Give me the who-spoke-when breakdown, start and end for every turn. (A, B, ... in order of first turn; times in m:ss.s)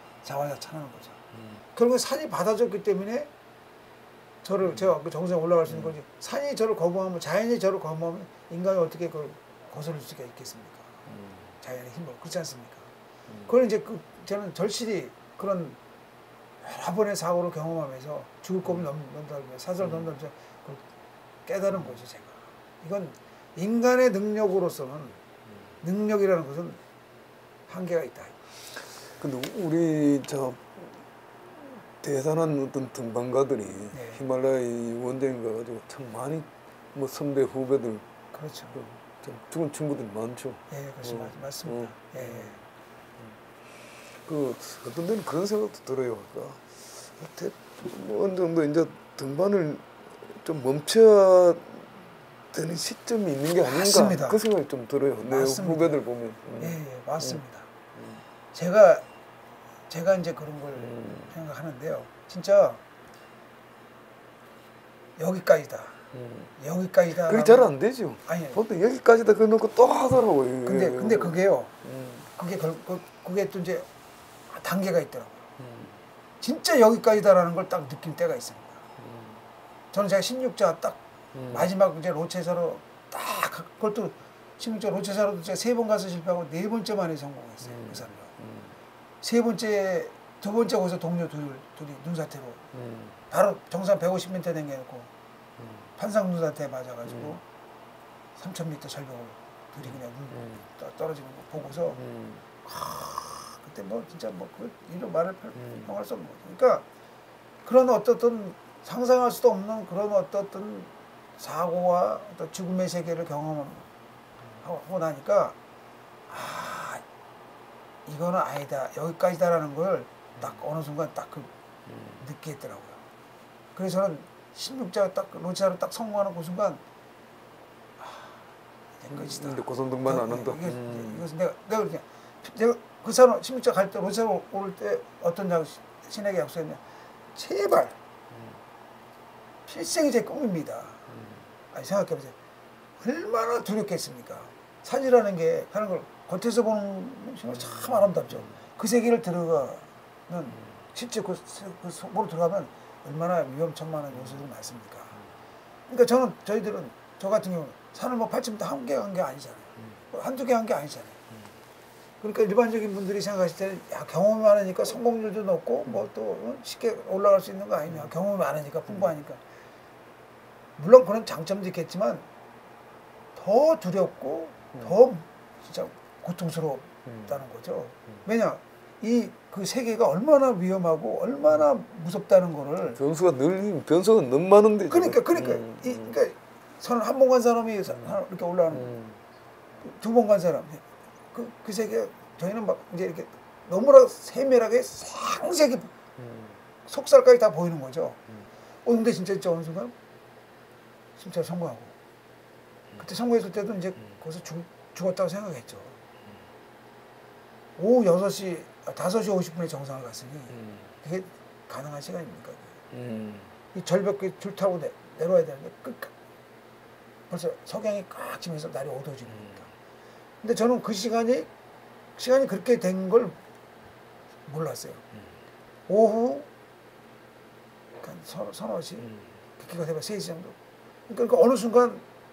0:00.2-0:01.2 A
0:01.7-0:03.3 A
0:04.4-0:10.9 A
0:04.6-0:04.9 B
0:05.7-0:05.9 B
0:11.1-0:11.4 B
0:11.6-0:12.9 A
0:13.5-0:15.8 A
0:16.6-0:20.8 A
0:21.4-0:25.2 A
0:25.8-0:26.8 A
0:27.7-0:28.3 A
0:29.2-0:31.0 B
0:31.6-0:38.0 B
0:33.9-0:34.2 A
0:38.3-0:38.8 A
0:38.7-0:42.6 B
0:40.7-0:42.6 A
0:44.2-0:57.4 B
0:53.6-0:54.4 A
0:55.2-0:56.0 A
0:56.6-0:57.7 A
0:58.5-0:59.0 A
0:59.9-1:02.8 A
1:00.9-1:01.3 B
1:05.2-1:06.0 A
1:06.1-1:06.5 B
1:06.6-1:07.7 A
1:07.1-1:12.2 B
1:08.2-1:08.6 A
1:10.6-1:11.7 A
1:12.3-1:13.9 A
1:14.5-1:15.4 A
1:15.6-1:16.0 B
1:16.4-1:18.8 A
1:19.0-1:19.4 B
1:19.9-1:28.3 A
1:21.3-1:21.7 B
1:27.6-1:28.7 B
1:29.2-1:32.6 A
1:32.7-1:33.2 B
1:33.3-1:35.1 A
1:36.0-1:37.4 A
1:37.0-1:37.4 B
1:38.4-1:42.0 A
1:39.9-1:40.6 B
1:41.9-1:42.4 B
1:42.6-1:46.8 A
1:45.6-1:45.9 B
1:47.6-1:53.9 A
1:54.6-1:55.6 A
1:56.3-1:57.0 A
1:58.0-2:01.5 A
2:01.9-2:02.2 B
2:02.2-2:03.0 A
2:03.7-2:06.8 A
2:08.0-2:08.4 A
2:09.0-2:16.8 A
2:09.1-2:11.2 B
2:17.3-2:18.0 A
2:19.6-2:21.1 A
2:21.7-2:22.4 A
2:23.0-2:35.2 A
2:35.9-2:41.2 A
2:42.2-2:49.4 A
2:50.8-2:52.3 A
2:53.3-3:03.0 A
3:02.9-3:06.1 B
3:04.9-3:09.0 A
3:08.7-3:09.2 B
3:09.8-3:15.9 A
3:16.2-3:16.6 B
3:16.8-3:18.2 A
3:18.8-3:19.9 A
3:21.2-3:21.9 A
3:23.0-3:26.0 A
3:27.8-3:32.8 A
3:30.6-3:30.8 B
3:32.9-3:33.5 B
3:33.7-3:36.1 A
3:37.3-3:39.7 A
3:39.3-3:39.6 B
3:40.4-3:41.5 A
3:42.2-3:43.4 A
3:44.5-3:45.0 A
3:45.9-3:46.5 A
3:48.0-3:50.6 A
3:51.1-3:52.0 A